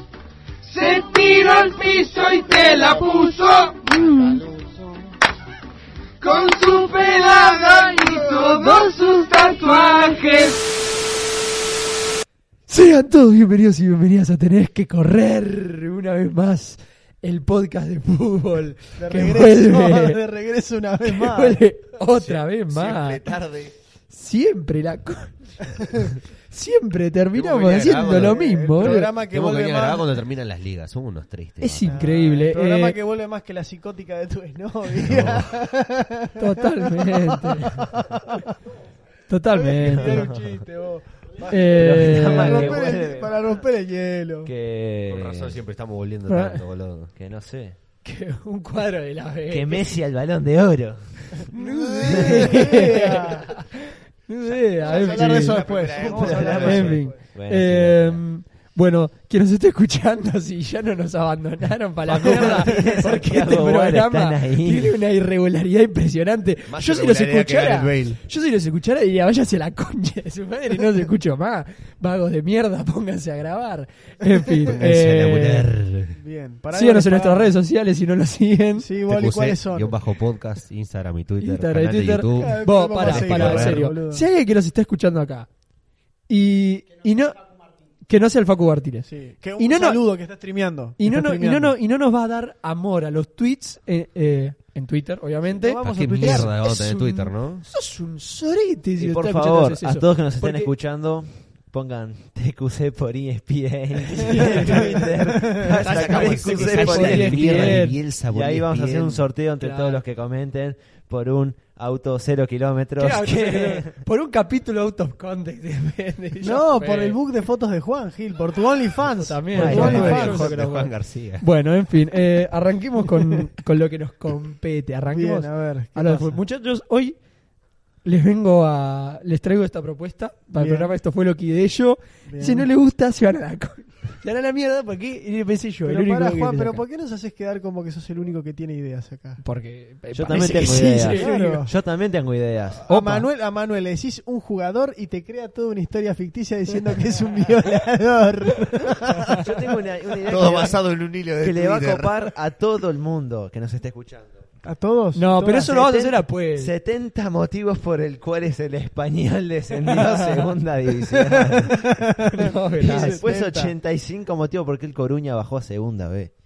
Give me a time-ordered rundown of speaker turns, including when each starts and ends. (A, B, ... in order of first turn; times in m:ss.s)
0:00.6-0:04.9 A
0:04.1-0:04.4 B
0:06.2-0:10.6 A
0:12.7-0:20.2 B
0:19.0-0:21.6 C
0:21.0-0:23.3 B
0:22.1-0:23.7 D
0:24.1-0:29.1 B
0:27.3-0:31.9 D
0:27.9-0:30.1 C
0:31.6-0:33.0 B
0:31.8-0:38.5 C
0:35.0-0:35.5 D
0:36.4-0:37.8 B
0:39.3-0:40.3 B
0:39.5-0:44.5 C
0:39.8-0:40.6 E
0:41.4-0:42.8 B
0:41.7-0:43.6 E
0:44.4-0:45.6 E
0:45.1-0:47.1 D
0:46.3-0:46.6 B
0:47.2-0:47.8 E
0:48.0-0:49.9 B
0:49.5-0:51.5 E
0:51.5-0:53.5 C
0:51.5-0:55.6 B
0:52.0-0:52.9 E
0:54.8-0:57.2 C
0:54.8-0:56.9 D
0:56.0-0:58.2 E
0:56.5-1:15.7 B
1:02.1-1:05.0 E
1:02.4-1:02.8 C
1:06.7-1:08.2 D
1:14.6-1:16.2 D
1:16.1-1:17.6 C
1:16.7-1:18.9 B
1:18.8-1:20.0 C
1:19.1-1:23.9 D
1:21.4-1:25.5 B
1:22.4-1:24.2 C
1:26.3-1:27.4 B
1:28.1-1:29.1 B
1:29.0-1:31.8 C
1:29.6-1:30.0 B
1:31.0-1:40.0 B
1:35.5-1:36.6 C
1:35.8-1:37.7 D
1:39.0-1:54.0 E
1:40.4-1:40.7 C
1:44.2-1:45.1 B
1:44.2-1:46.8 C
1:45.7-1:49.3 D
1:45.8-1:48.0 B
1:49.6-1:50.0 B
1:53.0-1:57.2 B
1:56.4-2:00.5 C
1:59.1-2:07.2 B
1:59.5-2:01.4 D
1:59.5-2:00.3 E
2:05.1-2:06.4 C
2:08.0-2:16.8 B
2:10.5-2:10.9 C
2:12.3-2:12.7 C
2:15.8-2:19.4 C
2:19.4-2:21.4 B
2:20.1-2:22.9 E
2:20.3-2:21.7 C
2:22.9-2:29.4 C
2:22.9-2:23.3 B
2:29.4-2:30.8 E
2:30.2-2:32.2 D
2:31.4-2:34.4 E
2:34.6-2:35.4 C
2:35.1-2:36.7 B
2:35.4-2:42.0 E
2:39.8-2:40.5 B
2:41.1-2:43.7 C
2:42.2-2:43.2 B
2:42.8-2:46.3 E